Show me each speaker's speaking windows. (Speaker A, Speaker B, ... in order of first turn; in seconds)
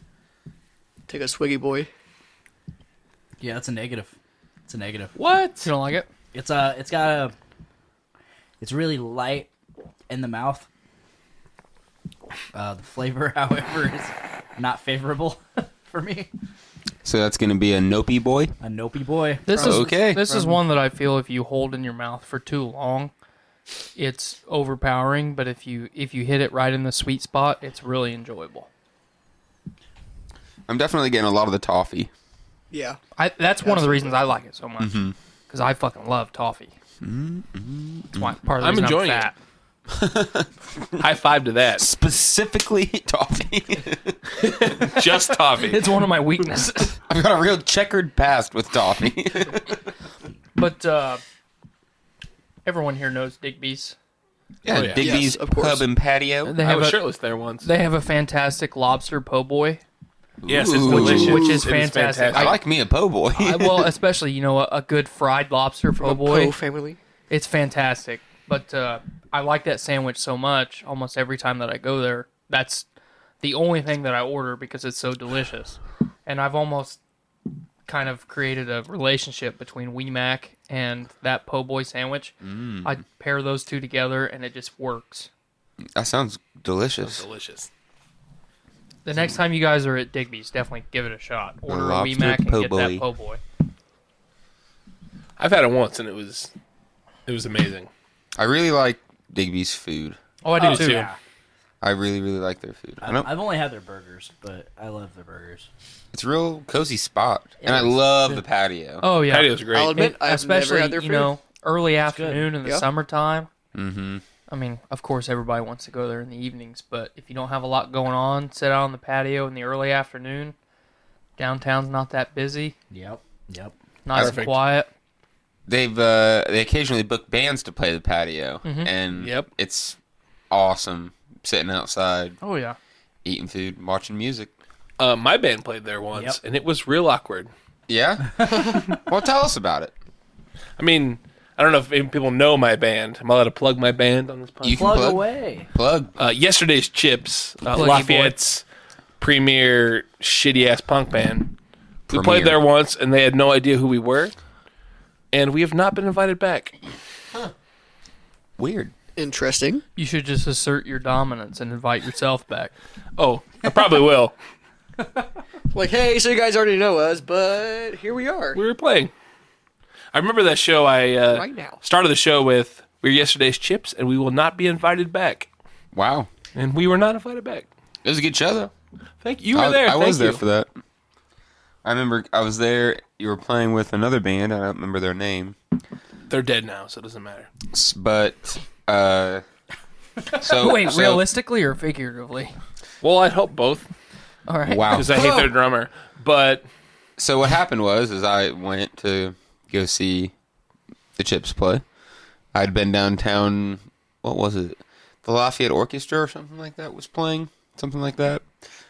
Speaker A: 1.1-1.9, 32.7-33.0, 33.6-34.2, 55.0-55.8, 66.0-67.0, 109.7-111.3, 159.2-159.8, 165.7-168.6, 171.3-171.8
Speaker B: 3.4-4.1, 4.7-5.1, 6.3-7.3, 8.6-9.5, 10.1-10.7, 12.5-16.3, 18.6-19.5, 100.6-101.2, 103.0-105.7, 107.6-108.4, 112.1-112.5, 122.9-123.7, 136.1-136.4, 144.7-145.7
Speaker C: 5.2-5.7, 38.6-39.3, 41.0-41.9, 44.4-45.8, 54.7-55.2, 56.5-57.7, 60.5-62.6, 87.0-87.7, 95.4-96.5, 97.3-97.9, 100.6-101.1, 109.2-110.1, 124.1-124.6, 129.2-129.5, 135.0-137.5, 140.8-145.0, 146.2-148.6, 149.2-151.5, 152.1-154.3, 155.3-156.7, 163.2-164.3, 168.6-169.1, 170.1-175.5, 176.6-177.7, 179.2-180.4, 186.3-187.5, 193.0-193.9, 194.9-196.6
Speaker D: 5.6-6.1, 19.5-23.1, 23.9-28.7, 33.1-36.7, 38.1-39.3, 45.6-46.9, 50.5-51.2, 52.6-54.0, 56.5-57.0, 57.6-59.8, 60.8-62.6, 63.3-66.5, 67.3-72.9, 73.4-77.0, 77.9-85.3, 89.0-93.4, 100.4-101.1, 109.0-113.5, 114.5-120.5, 121.4-122.7, 124.0-124.9, 128.6-128.9, 132.4-132.8, 147.7-148.4, 160.0-162.7, 190.4-192.5, 194.5-194.9
Speaker E: 17.0-18.5, 19.6-20.4, 30.7-32.1, 34.8-35.1, 37.0-38.4, 39.9-41.0, 41.8-45.0, 47.1-49.8, 54.6-56.6, 60.4-61.6, 62.3-63.9, 82.4-82.9, 86.0-87.3, 91.7-93.0, 98.4-100.2, 101.8-103.3, 106.1-109.0, 113.7-114.2, 125.7-130.0, 130.5-132.4, 133.2-134.5, 137.9-139.9, 144.6-146.1, 152.1-152.6, 158.6-158.9, 175.9-176.3, 178.1-178.7, 179.5-180.7, 181.8-185.6, 187.7-189.4, 190.3-191.2, 194.7-195.4, 197.2-200.3, 201.2-201.8, 202.5-208.4